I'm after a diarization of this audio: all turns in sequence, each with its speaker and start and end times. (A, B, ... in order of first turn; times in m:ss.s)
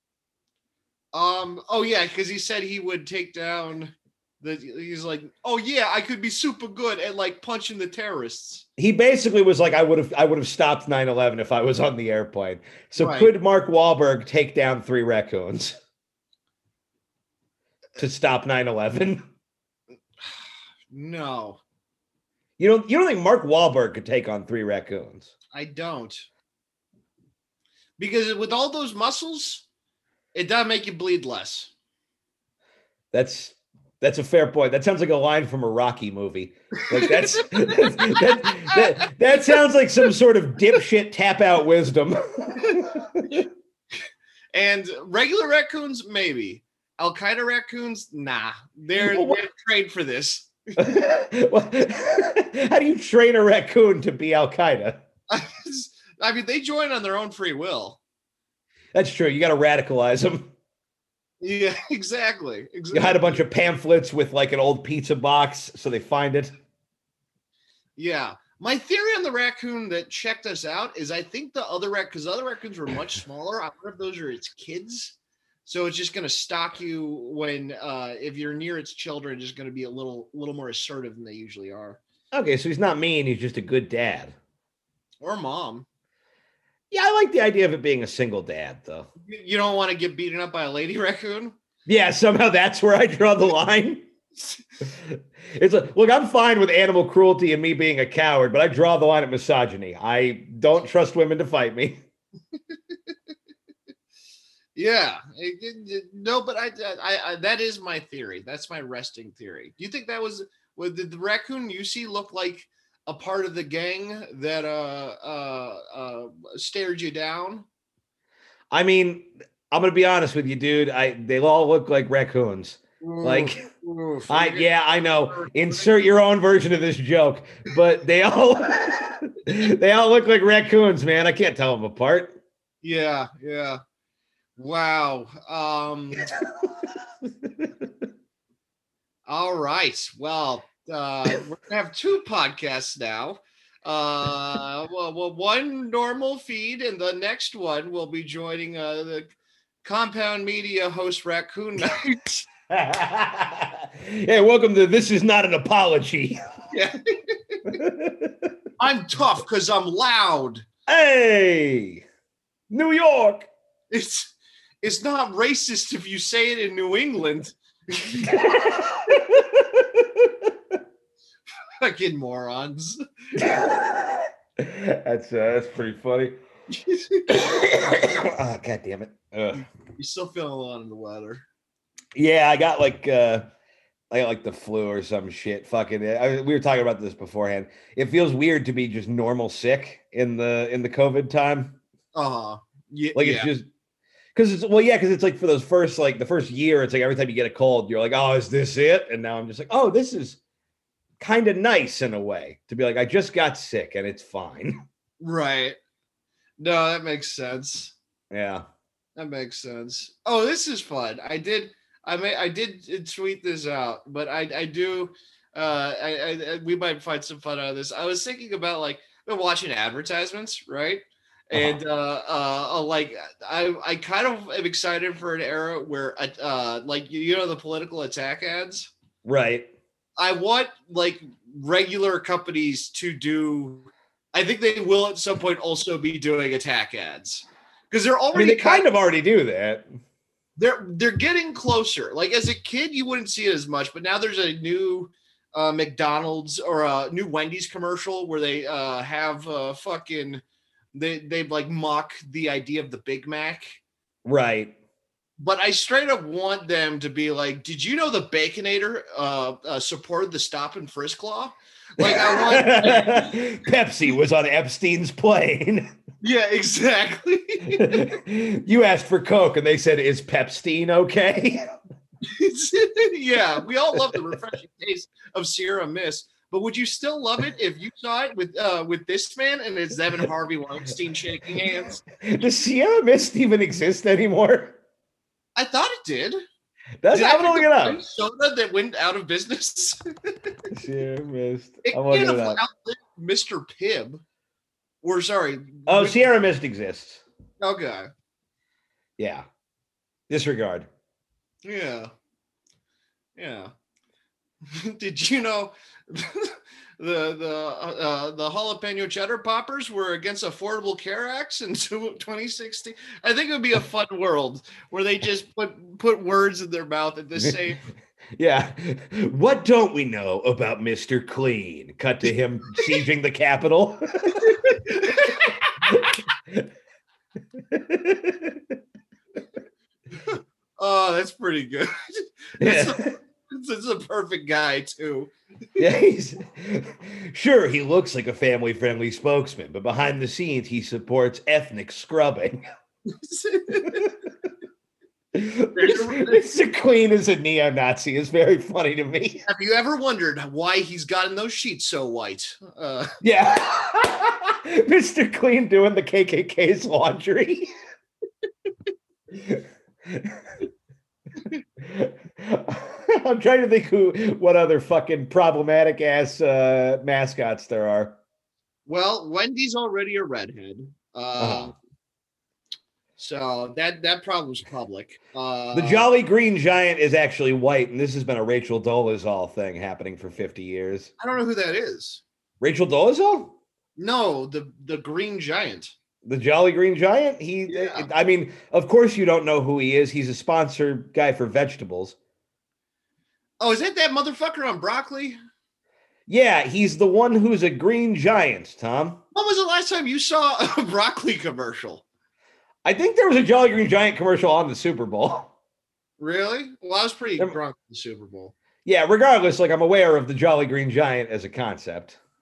0:01.1-0:08.6 A
0:08.8-0:15.8 B
0:13.0-0:13.3 A
0:18.0-0:19.2 B
0:20.9-0:21.6 A
0:22.6-0:25.3 B
0:25.5-0:26.3 A
0:28.0-0:29.6 A
0:30.3-0:31.7 A
0:33.1-0:43.4 B
0:36.8-0:39.6 A
0:44.5-0:50.5 A
0:48.9-0:49.4 B
0:50.8-0:55.0 B
0:55.3-0:58.0 A
0:58.9-1:00.5 B
1:01.4-1:03.4 A
1:02.9-1:06.5 B
1:08.0-1:22.0 A
1:22.3-1:24.4 B
1:25.2-1:25.9 A
1:26.9-1:29.1 B
1:29.2-1:31.5 A
1:31.9-1:34.1 B
1:34.9-1:42.0 B
1:42.7-1:43.0 A
1:44.7-1:57.6 A
1:58.7-2:03.6 B
2:03.0-2:05.9 A
2:04.3-2:12.4 B
2:12.8-2:13.8 A
2:14.6-2:16.3 A
2:16.3-2:17.9 B
2:19.3-2:29.3 A
2:29.8-2:32.4 A
2:32.7-2:36.4 B
2:36.7-2:37.6 A
2:37.6-2:38.5 B
2:38.8-2:40.6 A
2:40.9-2:42.0 B
2:42.7-2:43.5 B
2:43.9-2:48.5 A
2:48.2-2:50.5 B
2:51.8-2:53.0 A
2:53.4-2:56.4 B
2:56.7-2:57.4 A
2:57.3-2:59.6 B
2:59.5-3:01.4 A
3:02.1-3:03.4 B
3:04.1-3:11.8 B
3:12.1-3:13.5 A
3:13.1-3:13.7 B
3:14.4-3:20.4 B
3:21.2-3:24.8 B
3:25.2-3:25.8 A
3:26.6-3:27.9 A
3:28.3-3:28.6 B
3:29.2-3:48.9 A
3:41.5-3:41.8 B
3:49.2-3:49.7 B
3:50.2-3:58.9 A
3:58.3-3:59.9 B
4:00.6-4:10.4 A
4:10.9-4:13.8 A
4:14.2-4:14.7 B
4:15.4-4:23.4 A
4:22.0-4:25.9 B
4:26.2-4:28.1 A
4:27.7-4:31.7 B
4:32.2-4:42.0 A
4:42.2-4:44.8 B
4:45.6-4:46.4 A
4:47.0-4:48.0 B
4:47.1-4:50.0 A
4:50.7-4:52.6 B
4:51.8-4:54.2 A
4:55.0-4:56.3 A
4:55.9-4:57.2 B
4:57.6-4:58.1 A
4:59.2-4:59.4 B
5:00.3-5:00.9 B
5:01.6-5:02.1 A
5:03.4-5:03.7 A
5:04.6-5:17.8 A
5:18.4-5:26.7 B
5:24.4-5:25.6 A
5:27.6-5:28.8 B
5:30.2-5:35.3 A
5:32.6-5:33.1 B
5:35.8-5:42.6 B
5:43.1-5:44.1 A
5:45.3-5:49.4 B
5:45.7-5:46.4 A
5:49.4-5:53.1 A
5:53.2-5:57.7 B
5:59.3-6:00.6 B
6:01.8-6:08.2 B
6:08.9-6:11.7 A
6:11.4-6:11.7 B
6:13.2-6:16.1 A
6:15.7-6:21.1 B
6:21.2-6:22.2 A
6:22.6-6:23.6 B
6:24.0-6:25.9 A
6:26.2-6:32.2 B
6:27.7-6:28.1 A
6:33.6-6:35.4 A
6:36.3-6:39.2 B
6:39.3-6:42.0 A
6:42.8-6:45.5 B
6:46.2-6:48.5 A
6:48.8-6:52.2 B